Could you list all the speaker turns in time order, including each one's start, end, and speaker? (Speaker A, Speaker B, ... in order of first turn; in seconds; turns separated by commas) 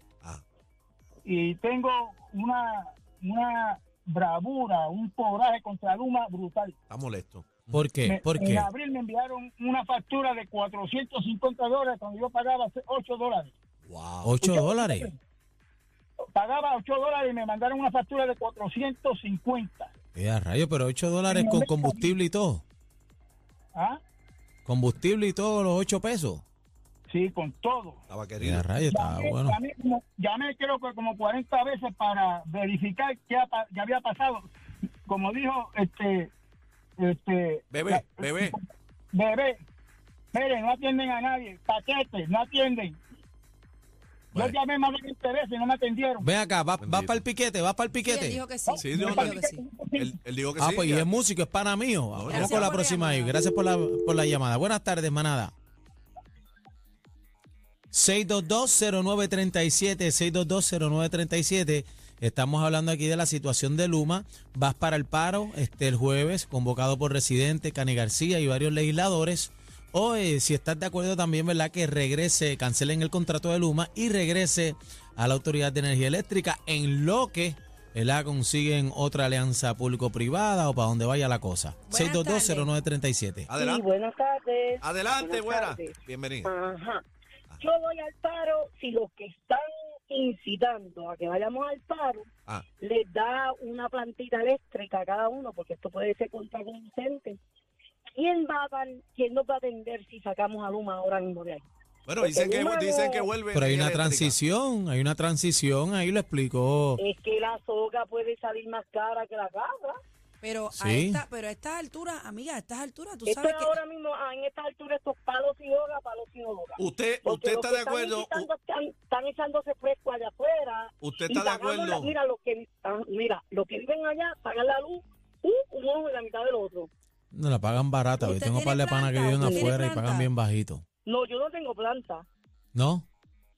Speaker A: 1.2-6.8, Speaker B: 6.9-7.9, Speaker C: 7.7-8.7, Speaker A: 8.0-13.5, Speaker B: 13.8-14.4, Speaker C: 14.2-15.1, Speaker A: 14.4-15.2, Speaker A: 16.3-19.9, Speaker C: 20.1-22.6, Speaker A: 21.3-22.1, Speaker C: 24.6-26.4, Speaker A: 27.1-28.0, Speaker B: 28.1-28.7, Speaker C: 28.4-29.6, Speaker A: 28.8-34.5, Speaker A: 35.1-36.3, Speaker A: 37.0-38.6, Speaker B: 37.7-38.5, Speaker A: 39.1-39.6, Speaker A: 40.3-43.0, Speaker A: 44.3-46.3, Speaker C: 46.2-48.4, Speaker B: 46.8-47.2, Speaker D: 48.0-49.6, Speaker A: 48.7-50.2, Speaker B: 48.8-49.4, Speaker B: 50.0-51.1, Speaker C: 50.6-55.5, Speaker B: 52.1-52.7, Speaker D: 52.3-53.4, Speaker C: 57.9-83.5, Speaker D: 81.9-82.7, Speaker B: 83.5-83.9, Speaker E: 83.6-87.0, Speaker B: 84.8-86.5, Speaker E: 87.6-92.3, Speaker E: 92.8-97.4, Speaker E: 98.1-101.6, Speaker B: 102.1-104.4, Speaker E: 102.2-103.3, Speaker C: 103.5-107.0, Speaker E: 107.0-110.0, Speaker D: 110.4-113.8, Speaker C: 110.7-111.2, Speaker E: 113.2-126.9, Speaker B: 116.8-118.5, Speaker B: 121.0-122.1, Speaker C: 127.3-130.8, Speaker D: 128.2-130.3, Speaker E: 129.4-129.7, Speaker E: 131.1-132.2, Speaker C: 132.7-133.1